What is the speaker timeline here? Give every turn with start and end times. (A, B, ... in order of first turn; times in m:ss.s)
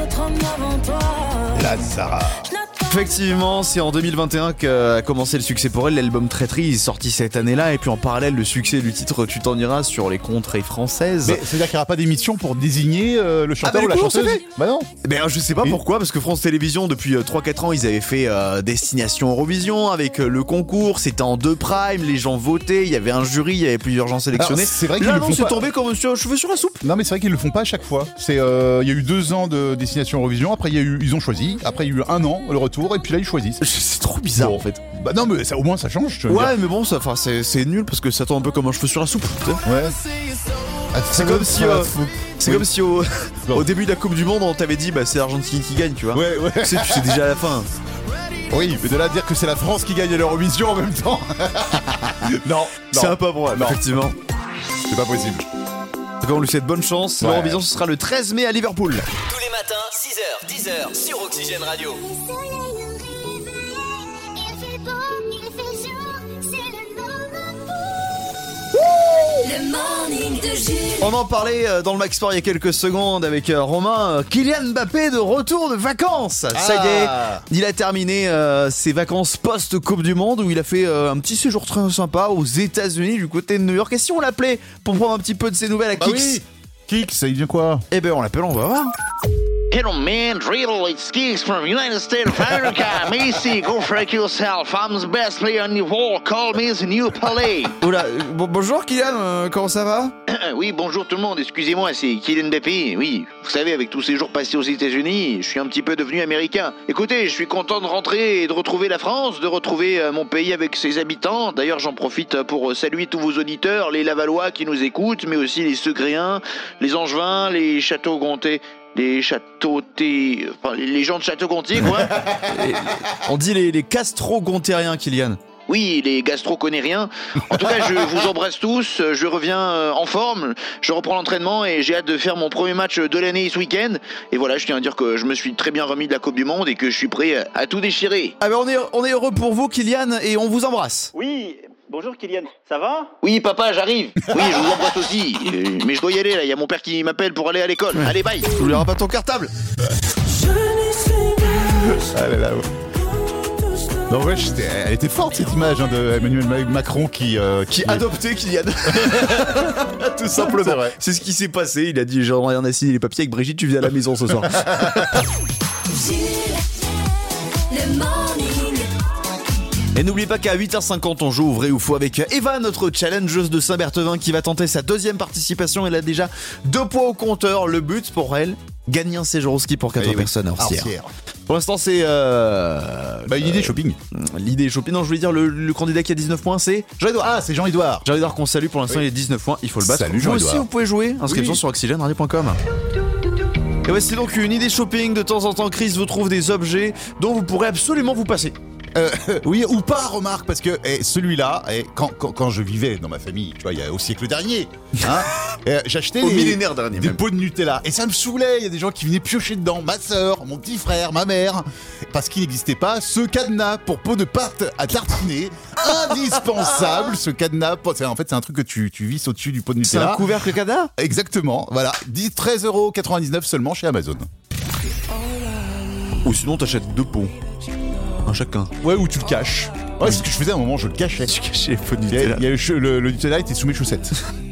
0:00.2-0:01.4 A
0:01.5-0:02.5 B
0:02.9-0:11.4 C
0:11.2-0:14.9 B
0:13.6-0:14.4 C
0:15.0-0:26.8 C
0:24.3-0:25.7 B
0:26.8-0:33.6 B
0:33.6-0:34.8 C
0:34.4-0:36.6 B
0:36.3-0:39.6 C
0:39.6-0:40.0 B
0:40.9-0:42.7 B
0:41.1-0:47.7 C
0:46.1-0:47.2 B
0:48.5-0:53.8 B
0:52.9-0:54.2 C
0:54.9-0:55.4 B
0:56.2-0:59.1 C
0:57.2-0:57.6 B
0:59.2-1:02.0 D
1:02.4-1:02.7 A
1:04.6-1:06.1 A
1:09.4-1:11.1 A
1:11.0-1:26.4 C
1:16.5-1:17.4 B
1:26.0-1:27.8 B
1:27.9-1:28.9 C
1:29.7-1:37.7 E
1:37.8-1:40.1 C
1:40.3-2:02.1 E
2:02.3-2:05.4 C
2:05.7-2:18.4 E
2:18.4-2:21.1 C
2:23.2-2:28.5 E
2:28.5-2:29.5 C
2:31.8-2:32.7 B
2:34.1-2:38.1 B
2:37.7-2:45.2 C
2:38.9-2:39.7 B
2:40.3-2:41.0 B
2:44.5-2:45.0 B
2:45.9-2:46.8 A
2:47.7-2:48.9 A
2:49.9-3:00.9 C
3:00.0-3:01.1 B
3:01.5-3:06.9 C
3:03.2-3:04.0 B
3:07.0-3:08.1 B
3:08.0-3:12.6 C
3:09.8-3:10.7 B
3:11.2-3:11.6 B
3:13.8-3:18.6 C
3:18.9-3:40.3 B
3:26.2-3:27.2 C
3:39.8-3:40.9 C
3:41.0-3:44.3 B
3:46.2-3:47.3 C
3:48.2-3:48.7 C
3:48.8-3:51.4 B
3:51.3-3:52.5 C
3:52.1-3:54.1 B